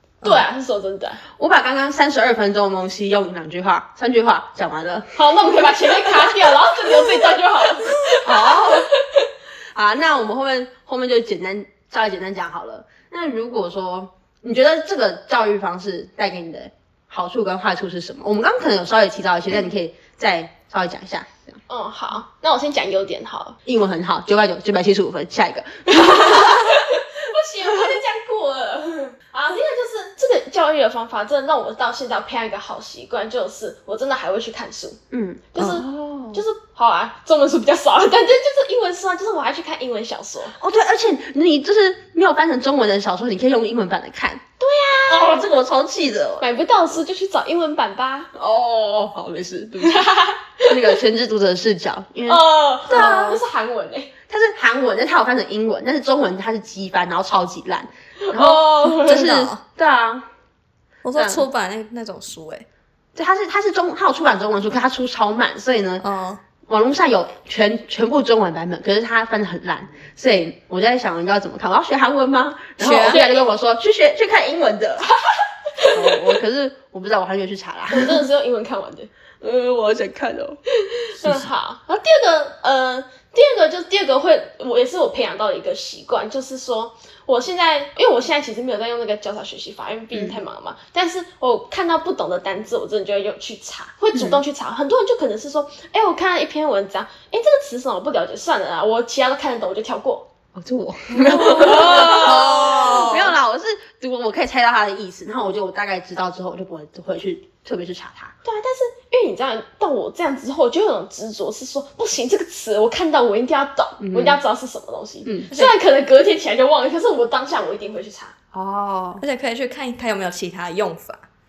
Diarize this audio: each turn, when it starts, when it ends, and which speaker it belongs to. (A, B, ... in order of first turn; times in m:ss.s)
0:00.2-0:01.2 A
0:01.4-0:07.3 B
0:05.2-0:09.2 A
0:08.2-0:08.9 B
0:09.7-0:21.6 B
0:21.7-0:23.6 A
0:23.7-0:26.9 B
0:25.9-0:35.0 A
0:27.7-0:28.0 B
0:35.1-0:36.4 B
0:35.5-0:40.6 A
0:40.6-0:44.4 B
0:44.6-0:45.5 A
0:45.0-0:46.5 B
0:46.4-0:48.3 A
0:48.3-0:50.1 B
0:49.8-0:50.9 A
0:50.6-0:53.4 B
0:52.3-0:54.1 A
0:52.9-0:53.4 C
0:54.3-1:00.3 B
0:58.2-0:59.3 A
0:59.0-0:59.6 C
1:01.0-1:02.7 C
1:01.2-1:01.4 B
1:03.2-1:06.0 B
1:06.0-1:06.4 C
1:06.7-1:15.1 B
1:12.8-1:13.3 C
1:13.0-1:13.5 A
1:15.8-1:16.2 A
1:15.9-1:18.2 B
1:17.9-1:19.1 A
1:19.4-1:20.6 B
1:20.9-1:40.3 A
1:30.1-1:30.4 B
1:34.1-1:34.4 B
1:40.6-1:48.3 B
1:41.1-1:42.8 A
1:41.6-1:43.3 C
1:48.4-1:58.3 A
1:54.0-1:54.4 B
1:55.2-1:55.5 B
1:58.5-1:59.2 B
1:59.2-2:01.2 C